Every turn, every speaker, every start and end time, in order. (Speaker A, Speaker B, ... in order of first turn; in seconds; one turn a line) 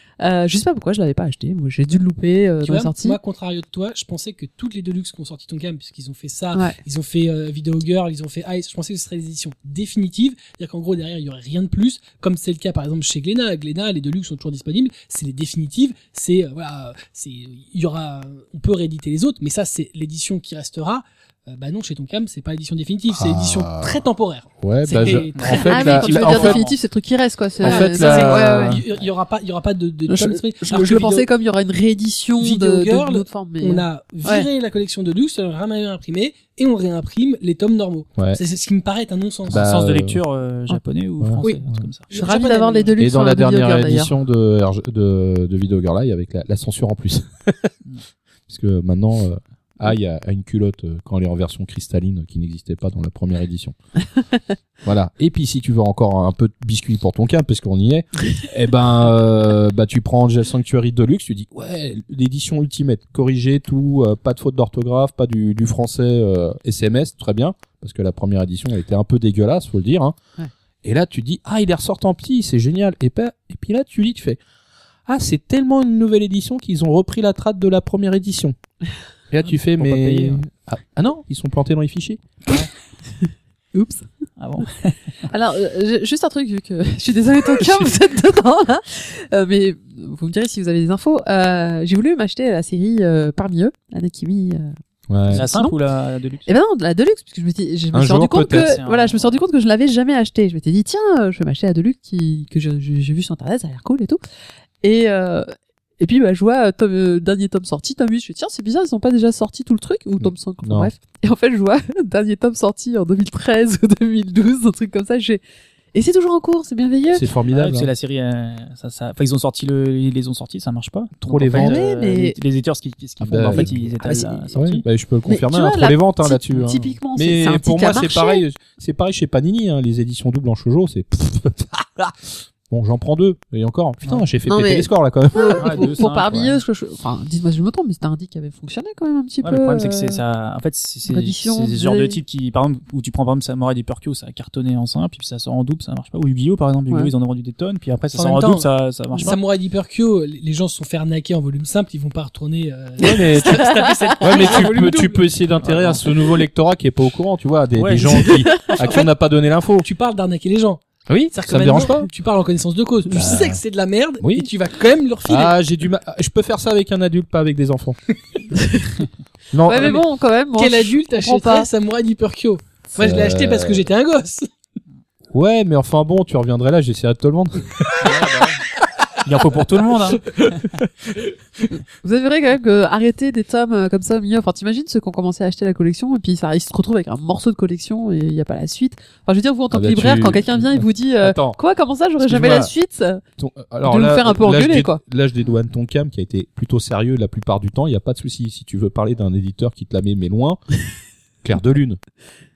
Speaker A: 0.2-3.2
Speaker B: 2.6-26.5
Speaker C: 23.2-24.0
Speaker C: 24.6-26.7
Speaker D: 25.4-26.8
Speaker A: 25.5-28.8
Speaker C: 27.6-28.8
Speaker B: 27.6-31.3
Speaker A: 30.1-34.5
Speaker B: 32.4-39.7
Speaker C: 38.2-38.4
Speaker C: 39.5-40.2
Speaker D: 39.5-42.1
Speaker C: 41.2-41.9
Speaker B: 41.5-42.9
Speaker A: 42.1-44.1
Speaker C: 43.0-47.7
Speaker C: 48.5-53.8
Speaker C: 54.8-70.2
Speaker C: 70.8-74.4
Speaker C: 75.1-78.6
Speaker C: 79.3-82.2
Speaker D: 79.7-80.4
Speaker A: 83.7-84.1
Speaker D: 84.4-85.3
Speaker A: 85.3-94.8
Speaker C: 95.1-95.5
Speaker A: 95.3-95.8
Speaker D: 95.3-96.5
Speaker A: 96.5-104.2
Speaker C: 97.9-98.8
Speaker D: 98.4-99.4
Speaker A: 104.8-105.5
Speaker A: 106.0-115.4
Speaker C: 110.2-110.9
Speaker A: 115.9-117.3
Speaker C: 117.1-117.9
Speaker D: 117.5-124.8
Speaker C: 121.2-121.8
Speaker A: 121.5-122.4
Speaker C: 123.2-136.0
Speaker A: 123.5-124.5
Speaker A: 125.3-128.4
Speaker A: 134.5-140.2
Speaker D: 135.6-136.6
Speaker D: 139.4-149.4
Speaker A: 141.1-142.2
Speaker B: 148.1-148.7
Speaker B: 149.2-155.3
Speaker C: 153.0-159.9
Speaker A: 153.5-154.4
Speaker D: 155.6-156.0
Speaker D: 157.8-158.3
Speaker B: 158.6-159.1
Speaker B: 159.8-165.6
Speaker C: 161.1-162.1
Speaker C: 163.1-163.6
Speaker C: 164.2-164.5
Speaker C: 165.3-168.0
Speaker A: 168.6-169.0
Speaker C: 169.5-170.0
Speaker A: 169.7-171.7
Speaker B: 169.7-170.0
Speaker B: 170.6-174.5
Speaker C: 173.0-173.9
Speaker C: 175.3-178.3
Speaker D: 178.0-178.6
Speaker D: 179.2-180.2
Speaker A: 182.0-193.2
Speaker C: 189.7-191.6
Speaker C: 192.2-192.7
Speaker C: 193.4-200.6
Speaker A: 193.8-195.0
Speaker C: 201.4-202.0